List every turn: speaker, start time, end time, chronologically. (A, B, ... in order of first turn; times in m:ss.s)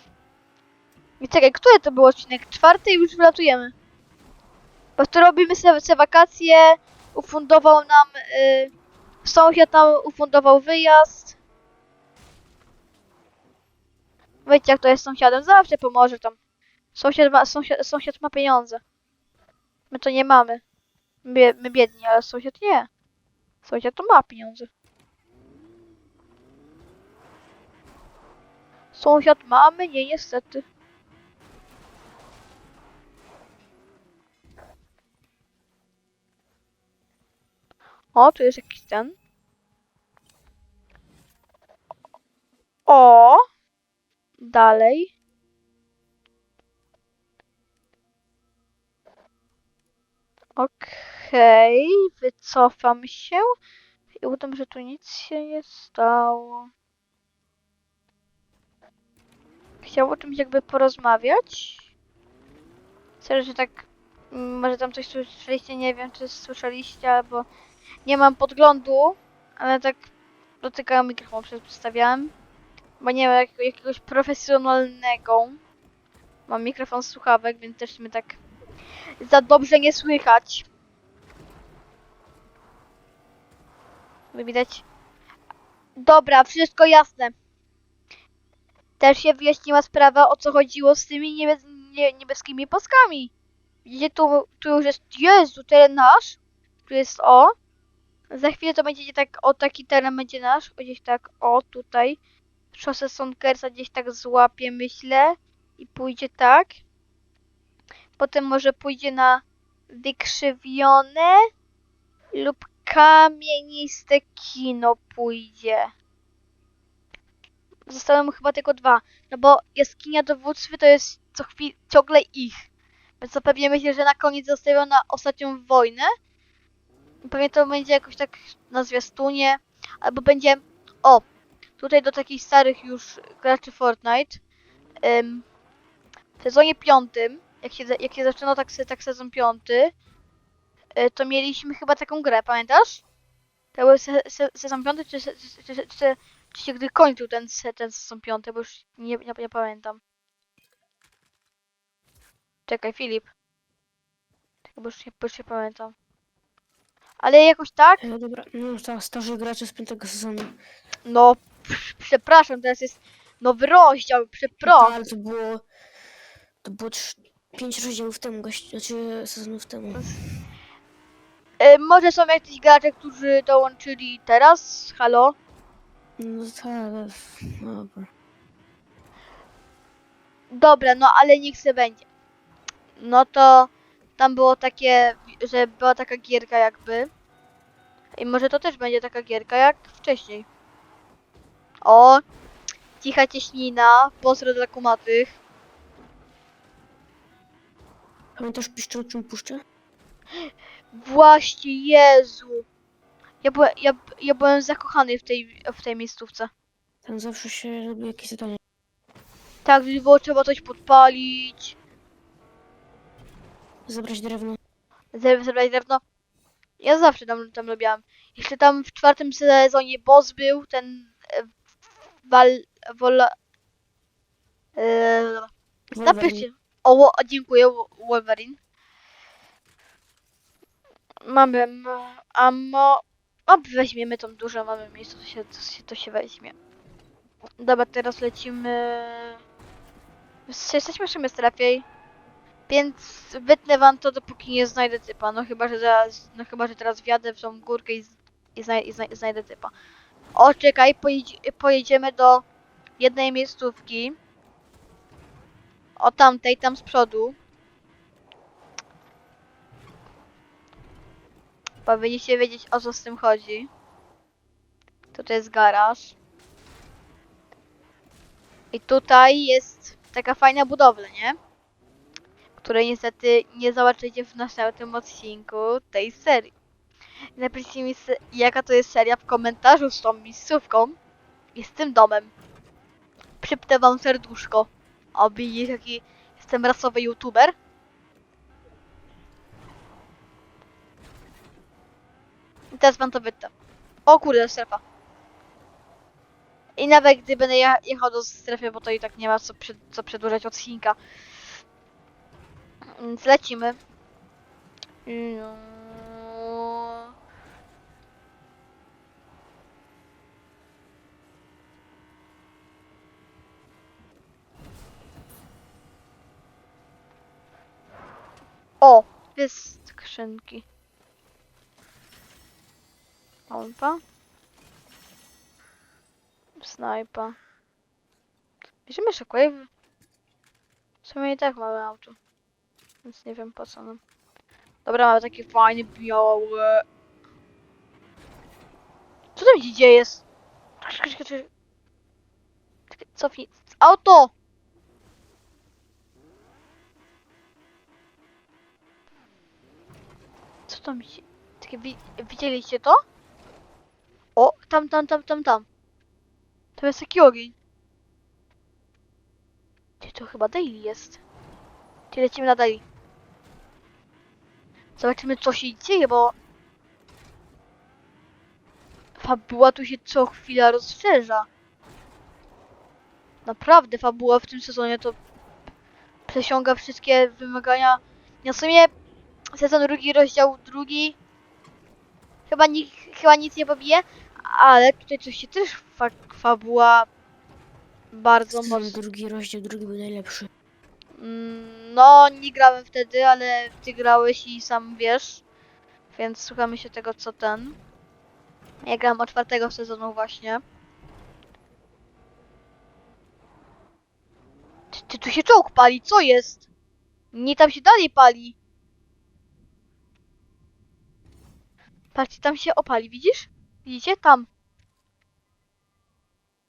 0:01.2-0:03.7 A
0:05.0-0:08.7 A
0:09.2-0:11.4 A
0:14.4-0:16.4 A
0:17.0-0:18.8 A
0:19.9-0:20.6 A
0:21.2-0:22.9 A
0:23.6-0:24.7 A
0:28.9-0:30.6 A
0:38.1-0:39.2 A
0:42.8-0:43.4 A
0:44.4-0:45.1 A
0:50.6-0:53.4 A
0:54.2-0:56.7 A
0:59.8-1:01.9 A
1:03.2-1:07.5 A
1:08.0-1:10.1 A
1:10.6-1:12.3 A
1:13.0-1:15.6 A
1:16.5-1:18.4 A
1:19.2-1:20.7 A
1:24.3-1:24.8 A
1:26.0-1:27.3 A
1:29.0-1:33.3 A
1:33.8-1:37.5 A
1:38.3-1:42.2 A
1:42.7-1:46.8 A
1:48.2-1:51.4 A
1:52.3-1:55.9 A
1:57.9-2:02.6 A
2:03.2-2:06.1 A
2:07.2-2:11.2 A
2:11.8-2:14.4 A
2:15.0-2:15.5 A
2:16.4-2:19.9 A
2:21.0-2:23.0 A
2:23.8-2:30.0 A
2:32.7-2:33.3 A
2:34.8-2:36.0 A
2:37.2-2:38.0 A
2:38.0-2:40.6 B
2:41.0-2:45.0 A
2:44.6-2:45.6 B
2:46.6-2:50.4 B
2:51.6-2:55.4 A
2:56.2-2:58.1 B
3:00.5-3:02.0 A
3:03.0-3:07.1 A
3:08.2-3:10.5 A
3:11.8-3:12.2 A
3:13.0-3:15.4 A
3:18.4-3:19.6 B
3:20.9-3:22.6 A
3:23.4-3:26.5 A
3:27.0-3:28.6 B
3:29.6-3:31.8 A
3:33.9-3:34.6 B
3:35.1-3:36.0 A
3:36.8-3:41.5 A
3:42.3-3:43.3 A
3:44.8-3:48.6 A
3:45.9-3:46.5 B
3:51.2-3:56.5 A
3:57.6-3:59.4 A
4:00.5-4:01.8 A
4:02.7-4:09.7 A
4:10.3-4:12.4 A
4:13.0-4:14.2 A
4:16.0-4:17.4 A
4:21.8-4:23.7 A
4:25.1-4:26.1 A
4:28.7-4:31.4 A
4:32.6-4:36.5 A
4:37.4-4:41.0 A
4:41.6-4:42.3 A
4:43.4-4:47.5 A
4:52.7-4:53.5 A
4:54.1-4:54.8 A
4:56.8-5:01.0 A
5:03.0-5:03.8 A
5:05.1-5:07.1 A
5:18.8-5:20.6 A
5:23.5-5:24.0 A
5:26.6-5:27.4 A
5:28.9-5:29.7 A
5:31.0-5:32.2 A
5:33.0-5:34.0 A
5:34.8-5:36.8 A
5:39.4-5:40.2 A
5:40.8-5:41.5 A
5:42.9-5:44.3 A
5:50.7-5:53.0 A
5:54.4-5:55.6 A
5:56.8-5:57.6 A
6:00.0-6:01.2 A
6:02.1-6:02.8 A
6:05.0-6:06.4 A
6:09.2-6:11.5 A
6:13.5-6:15.2 A
6:16.3-6:18.9 A
6:19.6-6:21.2 A
6:22.5-6:27.1 A
6:28.1-6:29.0 A
6:28.5-6:30.5 B
6:31.2-6:35.4 A
6:36.1-6:37.8 A
6:38.8-6:40.6 A
6:44.9-6:46.7 A
6:47.3-6:48.6 A
6:52.2-6:54.5 A